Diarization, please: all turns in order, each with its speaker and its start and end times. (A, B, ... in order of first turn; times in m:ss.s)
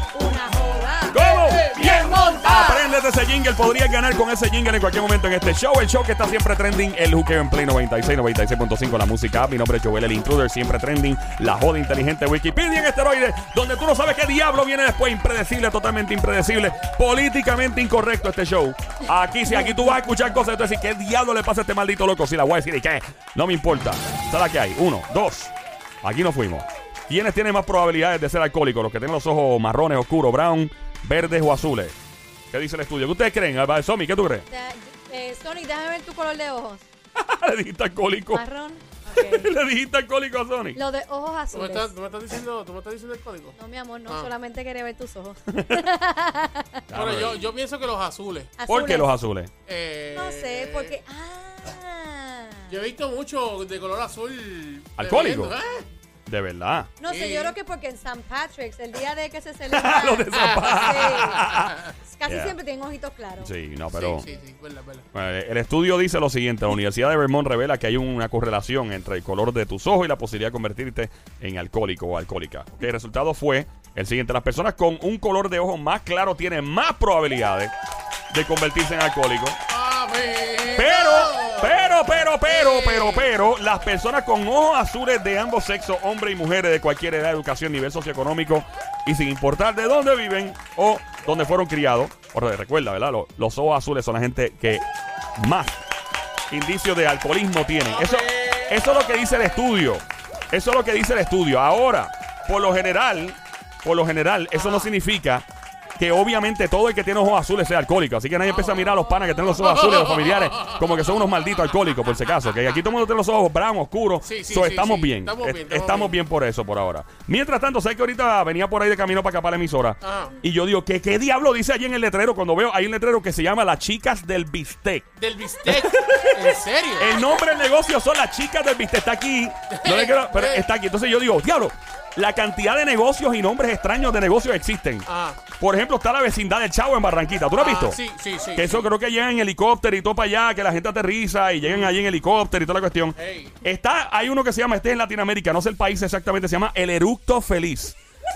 0:00.1-0:02.9 A
0:01.1-0:31.9 B
0:01.2-0:02.5 C
0:32.5-0:34.4 B
0:34.5-0:36.8 A
0:37.2-0:38.4 B
0:38.3-0:39.5 A
0:39.1-0:40.8 B
0:40.7-0:41.9 A
0:41.5-0:44.3 C
0:43.6-0:46.8 A
0:45.5-0:45.8 B
0:46.9-0:47.5 B
0:46.9-0:48.5 C
0:48.6-0:49.1 A
0:48.7-0:49.5 B
0:49.7-0:51.0 C
0:50.1-0:52.7 A
0:52.7-0:55.8 C
0:55.0-0:55.6 B
0:56.2-0:56.9 B
0:57.0-1:03.5 A
0:57.0-0:57.5 C
0:59.7-1:02.5 B
1:03.4-1:04.3 B
1:03.9-1:05.0 C
1:05.1-1:17.7 B
1:18.3-1:19.6 B
1:19.7-1:23.3 C
1:20.7-1:34.8 B
1:35.4-1:35.8 B
1:36.5-1:45.4 B
1:37.9-1:38.8 C
1:44.6-1:44.9 C
1:46.0-2:05.1 B
1:49.5-1:50.9 C
1:54.2-1:56.2 C
2:00.0-2:00.4 C
2:05.2-2:07.2 C
2:05.7-2:18.0 B
2:09.7-2:10.6 C
2:15.0-2:15.4 C
2:17.6-2:18.9 C
2:18.5-2:28.0 B
2:23.2-2:23.5 C